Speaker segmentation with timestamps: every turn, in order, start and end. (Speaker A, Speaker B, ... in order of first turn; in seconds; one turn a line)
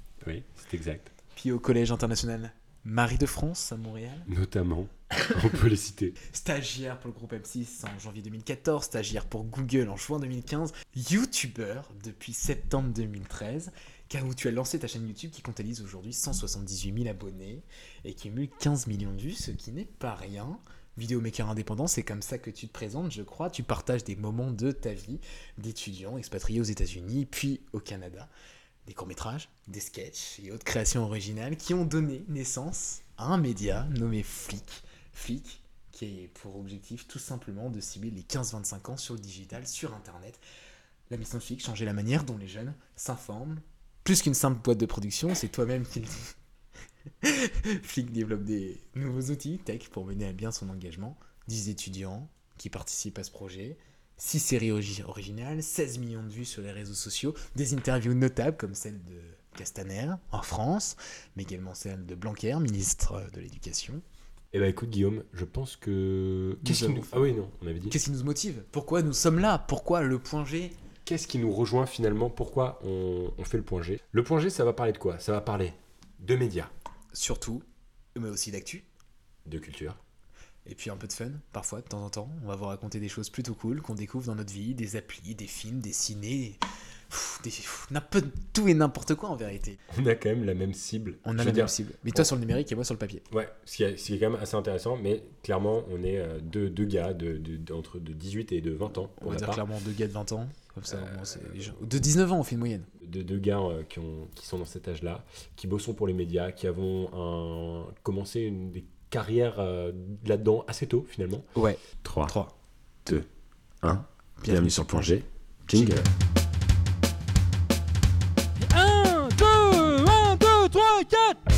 Speaker A: 0.2-1.1
Speaker B: 1.3-4.3
Speaker A: 4.3-6.2
Speaker B: 6.2-28.3
Speaker B: 28.8-40.4
Speaker B: 41.1-46.3
Speaker B: 47.2-64.0
Speaker A: 64.5-68.0
Speaker B: 66.6-67.3
Speaker B: 67.9-70.7
Speaker A: 71.0-76.7
Speaker B: 77.1-77.6
Speaker B: 78.1-78.8
Speaker A: 79.4-80.0
Speaker B: 80.7-89.8
Speaker A: 89.9-92.3
Speaker B: 91.2-93.2
Speaker A: 93.3-99.6
Speaker B: 99.2-102.9
Speaker A: 100.9-101.7
Speaker A: 103.0-111.5
Speaker B: 111.5-112.5
Speaker A: 112.0-112.3
Speaker A: 113.8-116.1
Speaker B: 114.4-115.2
Speaker B: 115.7-116.1
Speaker C: 118.7-121.3